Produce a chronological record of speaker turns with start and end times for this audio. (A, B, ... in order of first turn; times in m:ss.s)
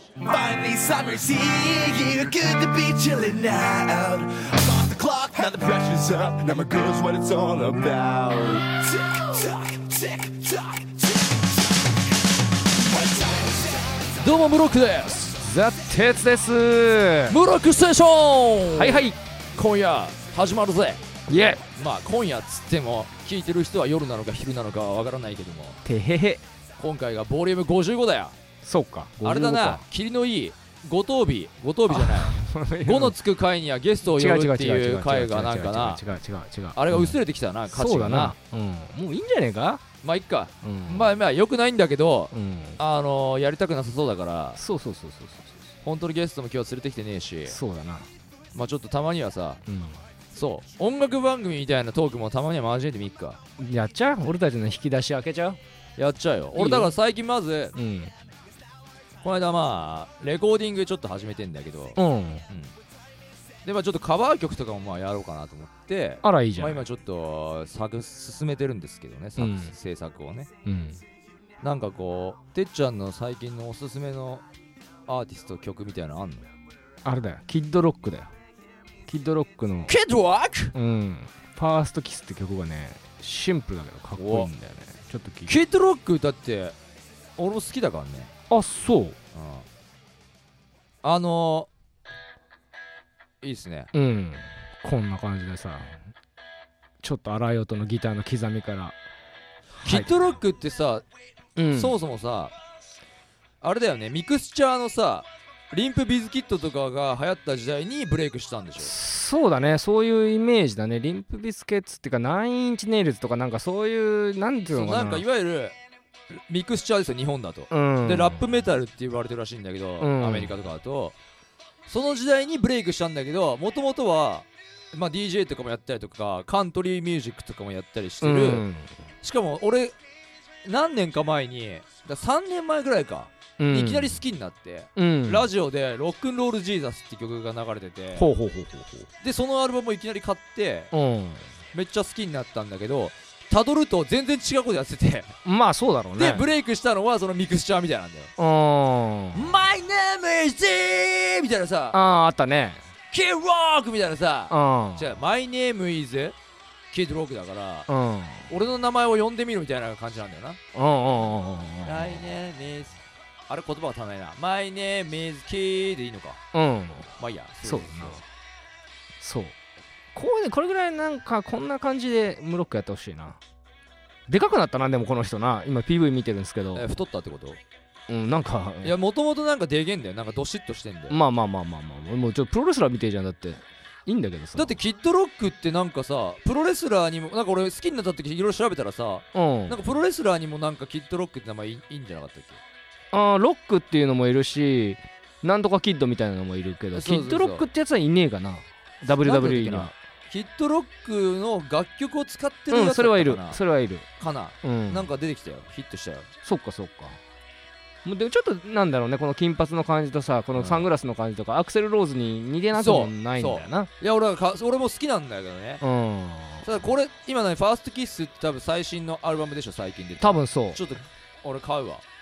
0:00.2-0:11.4 A
0:12.9-0:13.8 A
0:14.2-0:15.4 B
0:15.4-0:17.4 C
0:17.3-0:21.0 B
0:18.7-0:19.2 C
0:21.3-0:21.6 C
0:21.7-0:25.8 B
0:25.8-0:26.4 C
0:26.8-0:28.4 B
0:28.6-0:29.8 C
0:29.2-0:36.0 B
0:31.9-0:33.2 C
0:34.1-0:39.8 C
0:36.8-0:38.4 B
0:40.0-0:44.6 B
0:40.6-0:41.2 C
0:42.3-0:42.8 C
0:44.6-0:45.8 C
0:45.8-0:47.6 B
0:47.5-0:48.1 C
0:48.5-0:49.6 B
0:49.7-0:50.0 C
0:50.3-0:53.4 B
0:53.6-0:55.6 C
0:56.0-0:57.8 B
0:56.6-0:57.0 C
0:57.8-0:58.2 C
0:59.2-1:02.0 B
1:02.0-1:02.5 C
1:02.5-1:02.7 B
1:03.6-1:10.5 B
1:06.2-1:06.8 C
1:09.4-1:09.7 C
1:10.6-1:11.0 C
1:11.6-1:14.4 B
1:15.1-1:16.5 B
1:17.0-1:18.3 C
1:19.1-1:20.0 C
1:19.9-1:20.8 B
1:20.7-1:25.5 C
1:24.2-1:24.5 B
1:25.5-1:26.8 B
1:27.4-1:28.3 B
1:28.5-1:29.2 C
1:29.4-1:29.7 B
1:31.0-1:31.7 B
1:33.4-1:33.9 B
1:33.9-1:36.0 C
1:37.0-1:39.0 C
1:39.8-1:40.4 C
1:39.8-1:41.0 B
1:41.6-1:42.0 C
1:41.7-1:42.6 B
1:43.6-1:48.9 B
1:48.8-1:55.2 C
1:54.7-1:55.8 B
1:56.3-2:01.2 B
1:57.7-1:58.6 C
2:00.0-2:00.6 C
2:01.9-2:08.7 B
2:08.2-2:09.0 C
2:09.2-2:10.0 B
2:10.6-2:18.3 B
2:13.6-2:14.2 C
2:15.0-2:15.5 C
2:18.2-2:19.1 C
2:19.2-2:20.9 B
2:20.9-2:21.5 C
2:21.7-2:25.4 B
2:25.4-2:26.5 C
2:26.2-2:28.3 B
2:28.4-2:29.6 C
2:29.3-2:32.0 B
2:31.9-2:32.8 C
2:33.1-2:36.4 B
2:34.5-2:35.2 C
2:36.9-2:37.9 B
2:37.9-2:38.5 C
2:38.5-2:40.6 B
2:40.7-2:42.3 C
2:41.8-2:46.4 B
2:46.5-2:47.1 C
2:47.2-2:48.2 B
2:47.6-2:48.2 C
2:49.2-2:49.6 C
2:50.2-2:53.4 C
2:54.3-2:56.9 C
2:56.7-2:57.6 B
2:58.1-2:59.0 C
2:58.8-3:01.2 B
3:01.1-3:04.8 C
3:04.6-3:12.6 B
3:09.3-3:09.9 C
3:13.1-3:20.0 C
3:16.9-3:17.7 B
3:19.2-3:23.6 B
3:22.7-3:24.1 C
3:24.2-3:26.3 B
3:24.6-3:25.1 C
3:26.4-3:27.2 C
3:28.0-3:33.9 C
3:30.6-3:30.9 B
3:32.7-3:35.8 B
3:35.8-3:36.9 C
3:36.6-3:42.0 B
3:40.2-3:40.9 C